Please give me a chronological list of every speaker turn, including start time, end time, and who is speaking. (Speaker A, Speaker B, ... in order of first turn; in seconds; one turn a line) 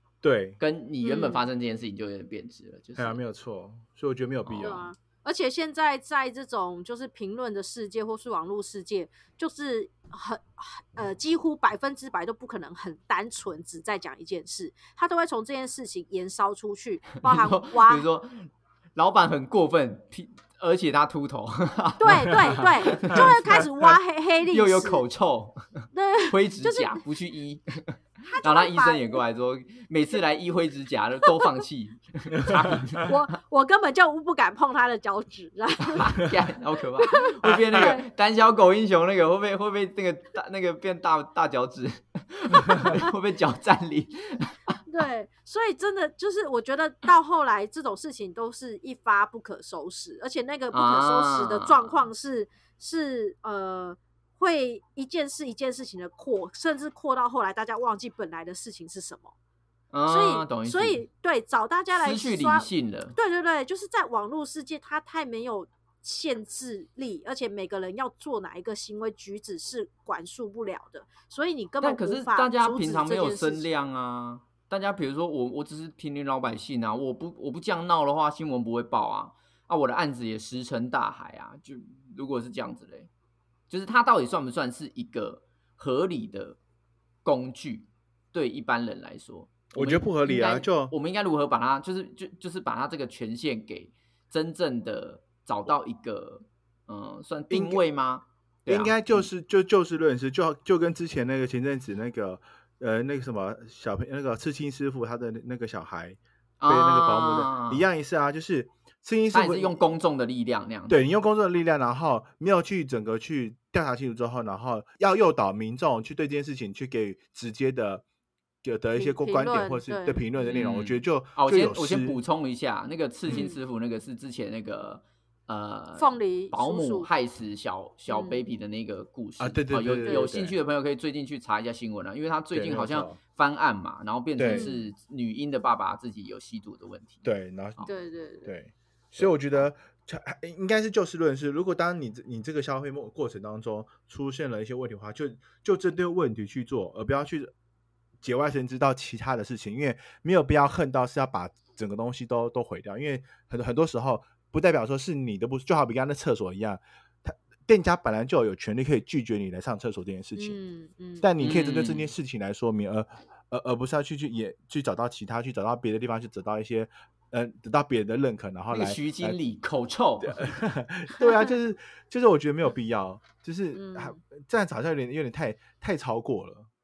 Speaker A: 0.2-0.6
Speaker B: 0.6-3.2
Speaker C: 1.0-1.4
Speaker A: 3.0-4.9
Speaker B: 4.4-4.8
Speaker C: 4.6-18.1
Speaker B: 17.2-23.6
Speaker C: 22.0-25.0
Speaker B: 24.5-33.2
Speaker C: 25.9-27.0
Speaker C: 28.3-29.2
Speaker C: 33.0-36.3
Speaker B: 35.8-44.6
Speaker C: 37.0-38.1
Speaker C: 44.9-59.3
Speaker B: 50.7-52.0
Speaker B: 59.9-61.0
Speaker C: 60.1-73.7
Speaker B: 61.9-63.2
Speaker B: 71.8-83.1
Speaker B: 83.7-86.6
Speaker B: 87.2-99.3
Speaker A: 89.7-90.9
Speaker A: 97.5-97.8
Speaker A: 98.7-109.7
Speaker B: 106.6-107.8
Speaker B: 109.3-111.0
Speaker A: 110.9-118.0
Speaker A: 118.6-122.2
Speaker C: 118.9-120.6
Speaker B: 120.5-137.2
Speaker C: 123.3-123.6
Speaker C: 126.0-127.1
Speaker C: 128.1-128.4
Speaker A: 129.4-130.6
Speaker C: 130.0-130.3
Speaker A: 132.5-133.2
Speaker A: 134.4-134.7
Speaker C: 134.5-134.9
Speaker A: 137.2-137.8
Speaker C: 137.8-138.5
Speaker A: 138.4-147.5
Speaker A: 148.2-160.6
Speaker C: 160.3-161.3
Speaker A: 161.2-169.4
Speaker B: 161.4-162.1
Speaker B: 168.7-170.6
Speaker A: 170.2-176.7
Speaker C: 173.7-174.2